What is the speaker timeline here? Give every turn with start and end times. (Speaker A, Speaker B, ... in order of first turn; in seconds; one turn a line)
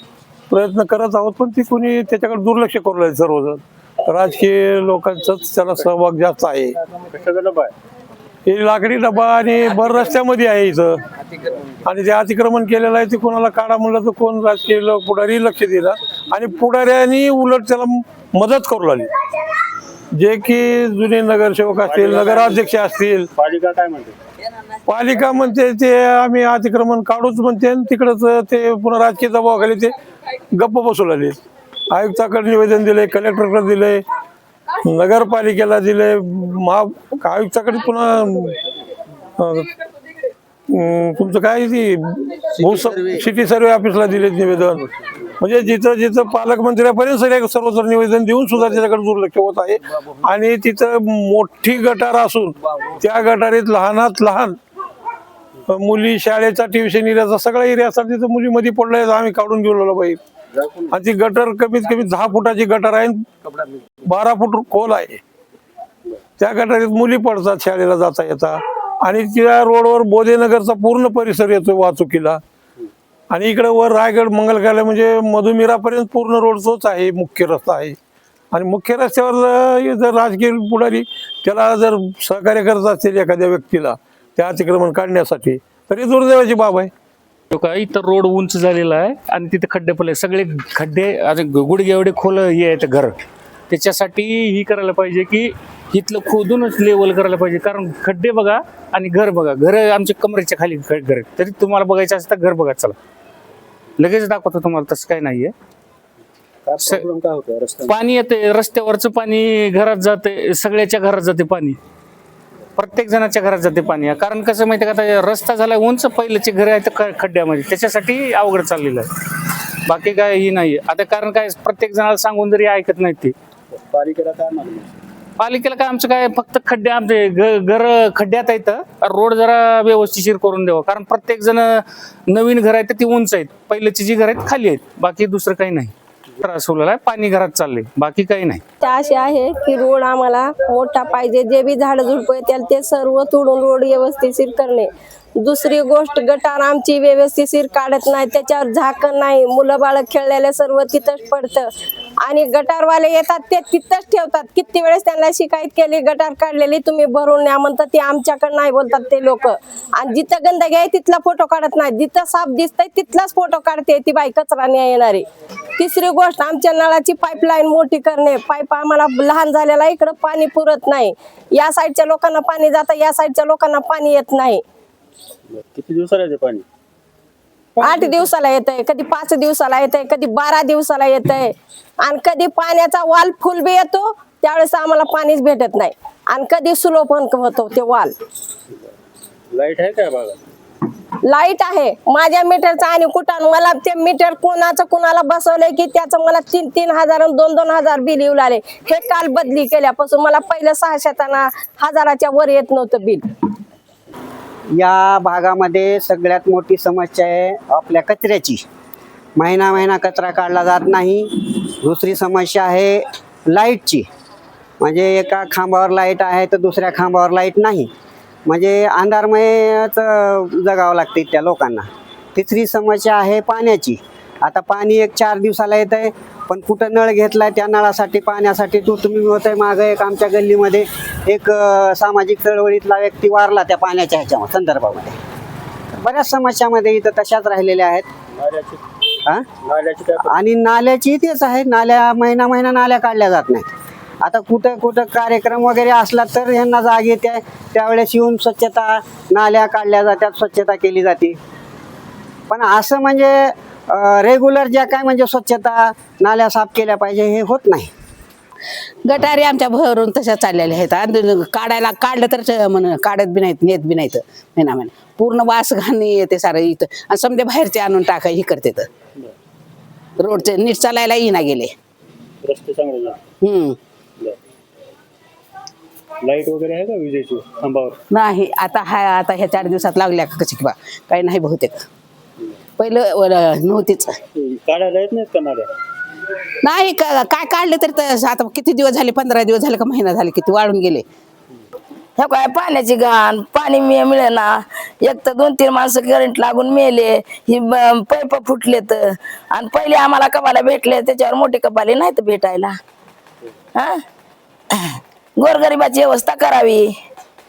Speaker A: 0.5-6.8
Speaker B: 7.0-7.7
Speaker A: 8.5-11.0
Speaker A: 11.9-19.1
Speaker A: 20.1-23.3
Speaker B: 21.9-22.4
Speaker B: 23.4-24.1
Speaker A: 24.9-29.9
Speaker A: 30.5-31.4
Speaker A: 31.9-34.0
Speaker A: 34.8-38.5
Speaker A: 39.4-39.7
Speaker A: 40.7-44.9
Speaker A: 45.4-54.6
Speaker A: 55.7-60.2
Speaker A: 60.9-63.2
Speaker A: 64.0-65.2
Speaker A: 66.4-72.4
Speaker A: 73.3-78.0
Speaker A: 78.5-86.9
Speaker C: 87.5-93.2
Speaker C: 93.7-103.0
Speaker C: 104.0-105.5
Speaker B: 106.7-107.8
Speaker C: 107.9-111.8
Speaker C: 112.8-123.3
Speaker B: 123.9-124.9
Speaker C: 125.4-138.6
Speaker D: 138.8-151.7
Speaker D: 152.2-165.2
Speaker D: 165.8-174.6
Speaker B: 175.8-176.6
Speaker D: 177.8-188.1
Speaker B: 189.6-190.3
Speaker D: 191.2-203.2
Speaker E: 204.7-208.6
Speaker E: 209.4-214.1
Speaker E: 214.8-217.9
Speaker E: 218.5-235.2
Speaker E: 235.9-238.1
Speaker B: 238.4-238.8
Speaker B: 239.7-240.2
Speaker E: 240.2-243.7
Speaker E: 244.2-251.4
Speaker E: 252.5-257.9
Speaker F: 259.0-268.9
Speaker F: 270.2-271.7
Speaker B: 272.4-273.2
Speaker F: 273.4-273.8
Speaker B: 276.3-277.9
Speaker F: 278.1-281.9
Speaker F: 282.8-284.2
Speaker B: 284.4-285.7
Speaker F: 286.6-291.1
Speaker G: 292.2-294.5
Speaker G: 295.0-299.0
Speaker G: 299.5-302.7
Speaker G: 305.4-306.9